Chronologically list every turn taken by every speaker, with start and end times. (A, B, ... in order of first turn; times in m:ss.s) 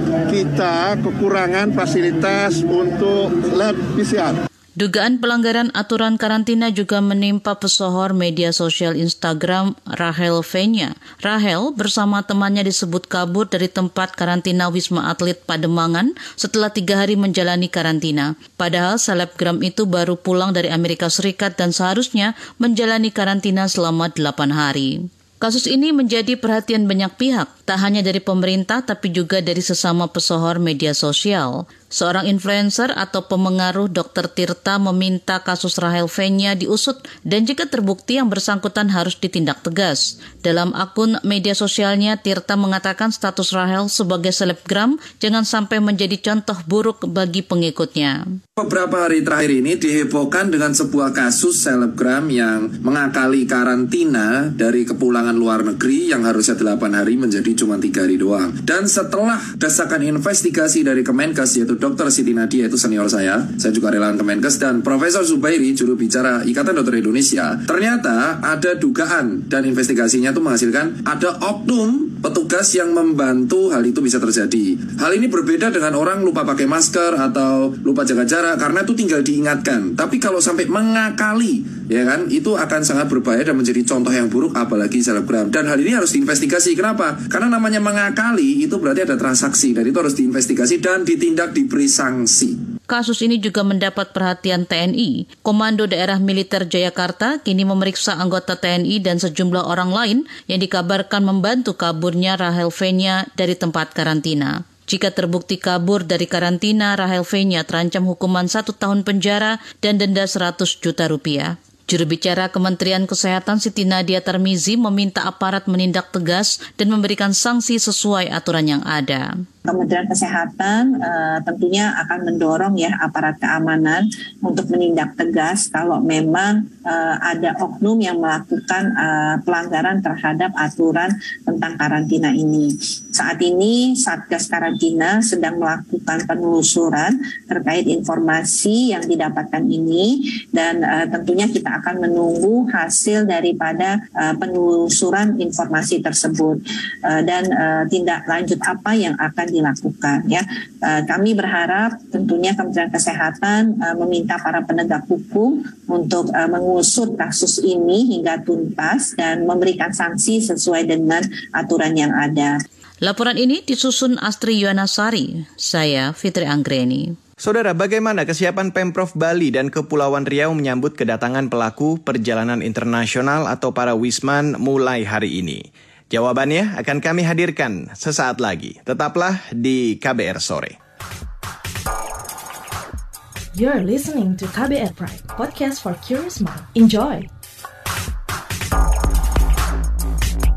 0:00.3-0:04.4 A
0:04.8-0:48.4 B
0:48.6-1:32.6 C
1:32.9-1:59.4 B
1:59.7-2:42.5 D
2:43.0-2:47.1 B
2:47.4-3:00.8 E
3:03.5-3:07.3 F